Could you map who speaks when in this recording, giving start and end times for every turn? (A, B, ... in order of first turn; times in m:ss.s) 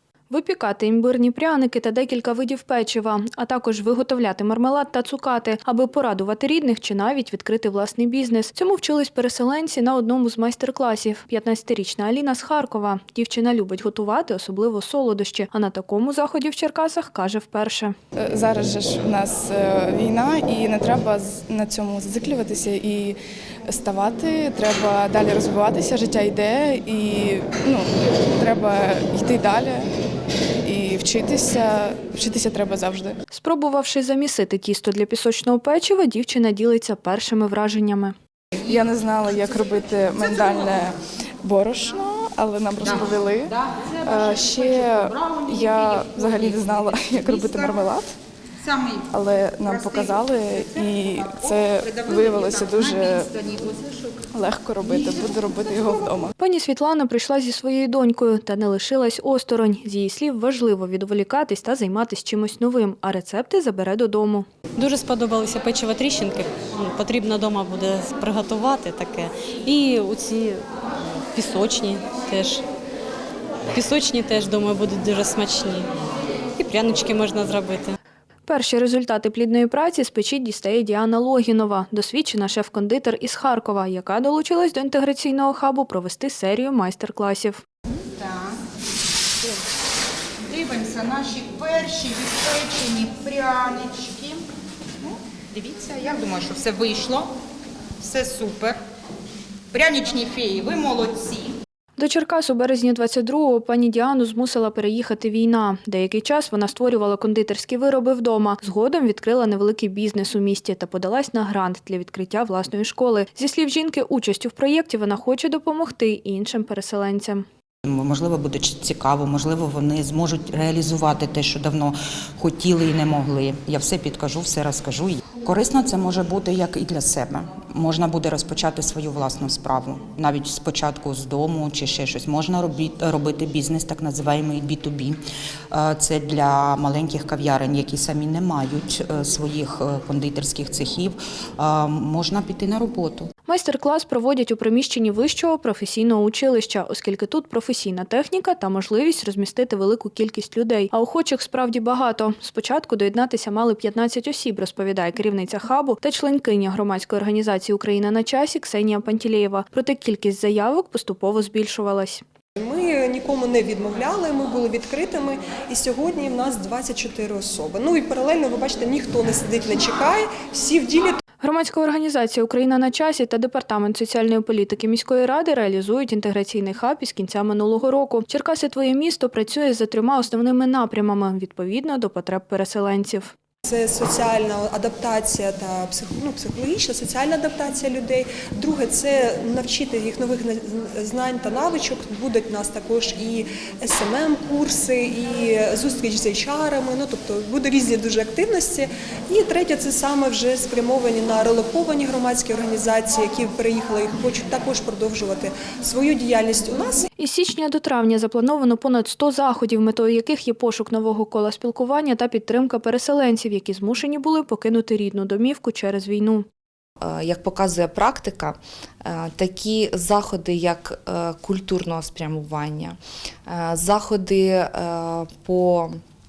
0:00.3-0:17.9 A
0:18.2-0:23.2 B
0:23.7-0:29.9 B
0:30.6-0:33.2 B
0:33.3-0:38.1 A
0:38.6-0:48.1 B
0:43.7-0:44.5 C
0:45.2-0:45.8 C
0:48.6-0:49.0 C
0:49.1-0:53.3 B
0:49.9-0:50.3 C
0:50.9-0:54.1 C
0:54.3-0:56.3 B
0:56.4-1:04.5 A
1:04.8-1:10.6 D
1:11.3-1:12.6 D
1:13.7-1:15.9 D
1:16.6-1:18.0 D
1:18.5-1:27.6 A
1:28.1-1:28.6 C
1:30.5-1:34.4 C
1:35.0-1:37.3 C
1:38.0-1:38.8 C
1:39.7-1:41.5 C
1:42.0-1:57.4 A
1:57.8-2:15.2 E
2:15.7-2:23.3 E
2:23.5-2:42.2 A
2:42.6-2:51.2 F
2:51.4-3:03.3 A
3:03.6-3:27.1 F
3:27.2-3:36.4 A
3:37.0-3:46.0 G